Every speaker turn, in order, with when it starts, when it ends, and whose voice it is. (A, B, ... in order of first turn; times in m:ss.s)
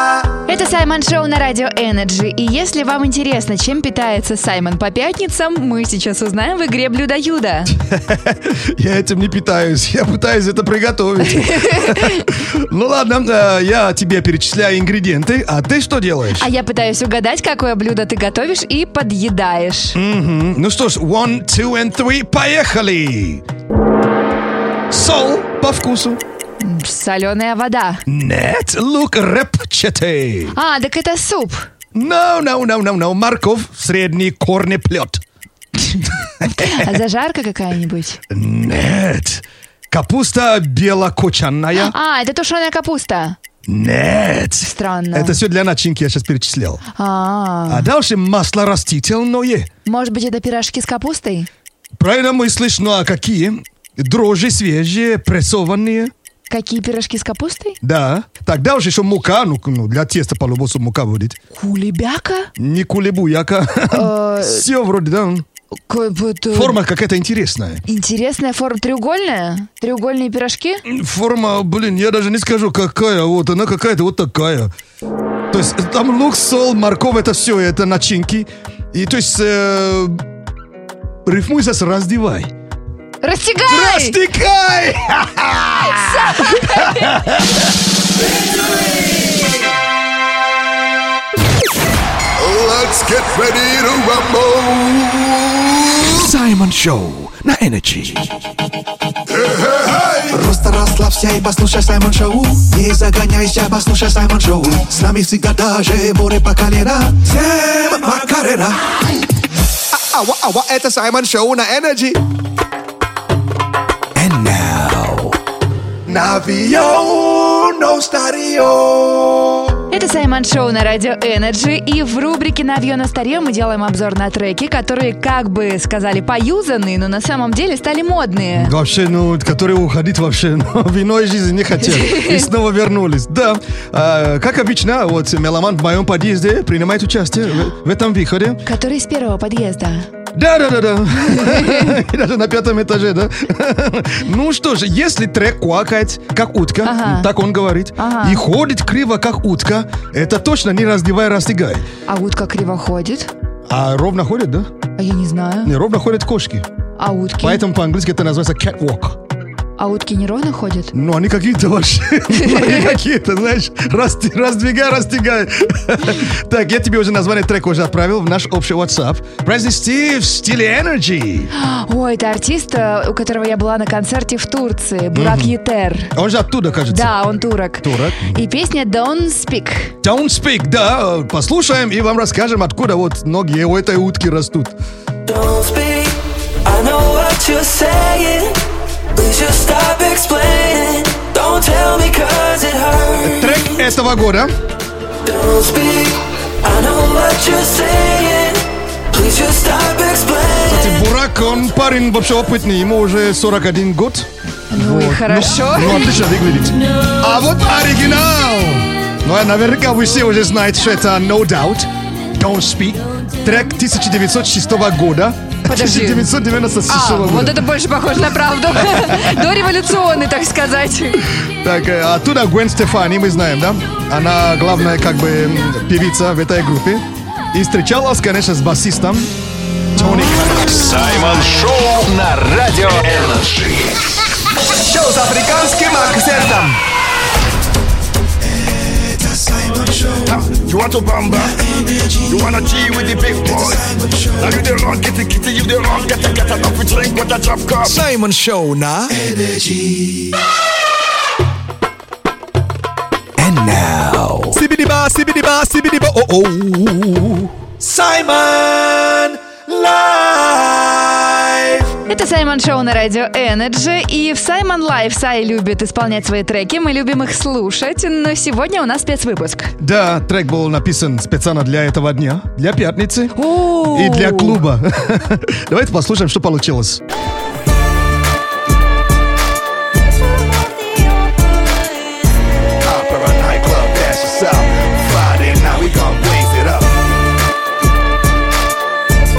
0:00.5-0:07.7 A
0:07.9-0:16.5 B
0:11.2-0:12.3 A
0:16.4-0:20.0 A
0:20.0-0:23.4 B
0:24.9-0:26.2 B
0:26.6-0:28.0 A
0:28.1-0:30.6 B
0:30.6-0:31.7 A
0:31.9-0:35.2 B
0:36.4-0:36.7 B
0:36.4-0:38.2 A
0:38.3-0:41.9 B
0:41.8-0:43.4 A
0:43.7-0:46.8 B
0:44.6-0:45.4 A
0:47.0-0:47.9 A
0:47.7-0:49.7 B
0:49.9-0:51.5 A
0:52.0-0:56.1 B
0:56.5-0:57.8 A
0:57.8-1:01.4 B
1:01.5-1:02.5 A
1:02.6-1:05.4 B
1:03.9-1:04.7 A
1:05.9-1:06.8 A
1:06.5-1:07.8 B
1:07.9-1:10.8 A
1:10.8-1:14.7 B
1:15.5-1:20.2 B
1:21.2-1:22.5 B
1:23.2-1:24.2 A
1:23.7-1:27.6 B
1:25.8-1:27.2 A
1:36.1-1:36.4 B
1:36.1-1:38.3 C
1:40.3-1:48.8 C
1:49.9-1:52.2 C
1:54.2-1:55.4 C
1:56.1-1:59.6 C
1:59.9-2:08.7 A
2:08.6-2:18.6 B
2:11.8-2:12.5 A
2:18.6-2:20.1 A
2:20.3-2:31.9 B
2:21.2-2:22.0 A
2:26.8-2:27.3 A
2:28.0-2:28.4 A
2:32.1-2:33.3 A
2:33.7-2:34.7 B
2:35.0-2:35.7 A
2:35.6-2:36.7 B
2:37.0-2:37.6 A
2:37.4-2:39.2 B
2:39.8-2:40.9 A
2:40.9-2:51.5 B
2:42.3-2:42.9 A
2:51.6-2:56.1 A
2:55.1-2:55.5 B
2:56.1-2:57.2 B
2:56.9-2:59.9 A
2:57.8-2:58.4 B
3:00.0-3:04.8 B
3:05.3-3:08.6 D
3:09.2-3:13.7 D
3:13.2-3:14.5 B
3:15.2-3:20.9 D
3:20.7-3:37.6 B
3:24.7-3:26.1 A
3:35.7-3:36.3 A
3:36.9-3:41.2 A
3:38.8-3:39.4 B
3:41.6-3:49.3 B
3:49.9-3:51.1 B
3:50.0-3:50.9 A
3:50.7-3:54.0 E
3:54.8-3:56.8 B
3:55.1-3:56.6 C
3:58.5-4:00.6 C
4:00.3-4:01.6 F
4:01.3-4:02.5 C
4:02.3-4:03.8 F
4:03.2-4:04.6 C
4:04.4-4:08.0 F
4:07.8-4:09.2 B
4:09.1-4:10.4 C
4:13.4-4:14.6 C
4:14.5-4:18.0 B
4:17.8-4:21.2 C
4:22.1-4:29.7 A
4:29.8-4:33.4 B
4:33.4-4:34.6 A
4:33.9-4:37.0 B
4:42.8-4:46.9 C